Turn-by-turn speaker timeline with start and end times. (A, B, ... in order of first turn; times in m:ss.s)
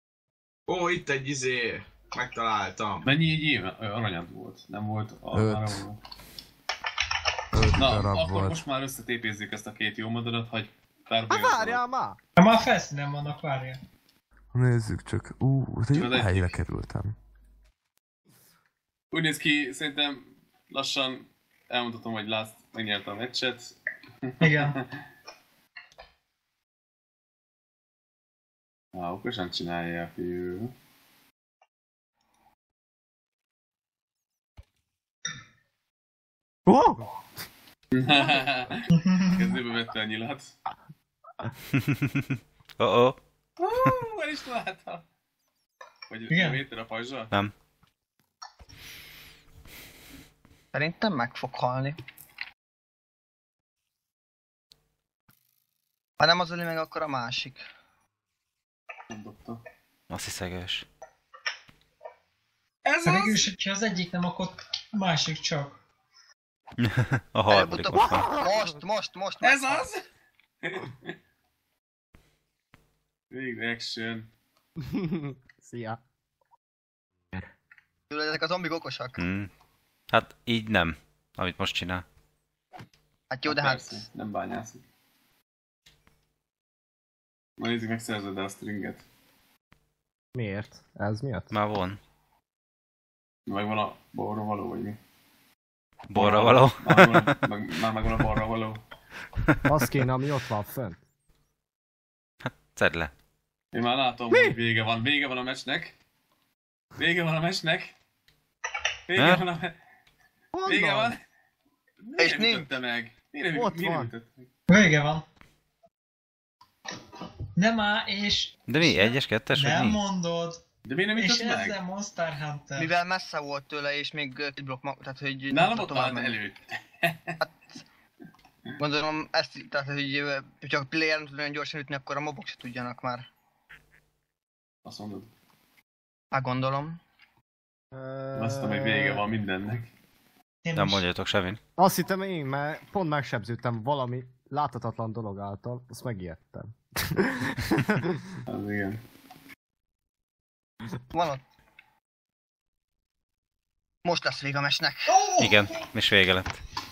0:00.7-0:03.1 A
0:03.0-0:06.0 B
0:05.3-0:05.8 C
0:07.5-0:08.6 C
0:07.8-0:11.8 B
0:11.3-0:12.2 D
0:12.4-0:13.8 E
0:14.5-0:17.1 C
0:15.9-0:16.6 B
0:19.1-0:25.0 B
0:24.4-0:24.8 E
0:28.9-0:30.7 B
0:36.7-0:37.1 D
0:37.9-0:40.6 B
0:38.9-0:39.4 E
0:41.7-0:43.2 F
0:43.6-0:45.0 B
0:46.1-0:47.3 B
0:46.3-0:46.6 E
0:50.7-0:52.0 G
0:56.2-0:57.6 G
0:59.1-0:59.6 B
1:00.1-1:00.9 F
1:02.8-1:03.5 B
1:03.0-1:05.8 E
1:06.8-1:08.4 F
1:07.5-1:09.9 G
1:09.4-1:10.0 B
1:10.6-1:11.2 B
1:13.3-1:14.3 B
1:14.8-1:16.0 D
1:18.1-1:19.2 G
1:19.2-1:19.5 F
1:20.1-1:22.0 F
1:23.3-1:24.0 G
1:23.5-1:24.8 B
1:27.6-1:29.0 B
1:30.4-1:31.5 D
1:31.5-1:32.0 F
1:33.5-1:35.0 B
1:36.1-1:37.3 F
1:36.1-1:38.8 B
1:39.7-1:41.0 D
1:42.4-1:43.1 F
1:43.7-1:46.0 B
1:47.0-1:47.9 B
1:49.1-1:49.8 B
1:49.2-1:49.4 F
1:50.5-1:51.2 D
1:50.6-1:51.2 B
1:52.0-1:54.5 B
1:52.2-1:52.7 G
1:53.5-1:54.1 D
1:54.7-1:55.2 E
1:57.6-2:00.6 E
1:58.7-2:00.0 F
2:00.9-2:01.8 B
2:01.2-2:03.0 E
2:02.8-2:06.4 G
2:05.5-2:07.4 B
2:07.4-2:07.8 G
2:08.8-2:13.3 G
2:14.8-2:15.3 B
2:16.3-2:17.0 G
2:17.9-2:19.2 D
2:18.3-2:19.9 B
2:20.6-2:21.1 E
2:20.8-2:21.6 F
2:21.8-2:28.2 D
2:28.5-2:29.0 B
2:31.1-2:31.4 G
2:34.0-2:35.2 G
2:35.1-2:35.7 E
2:35.4-2:36.6 F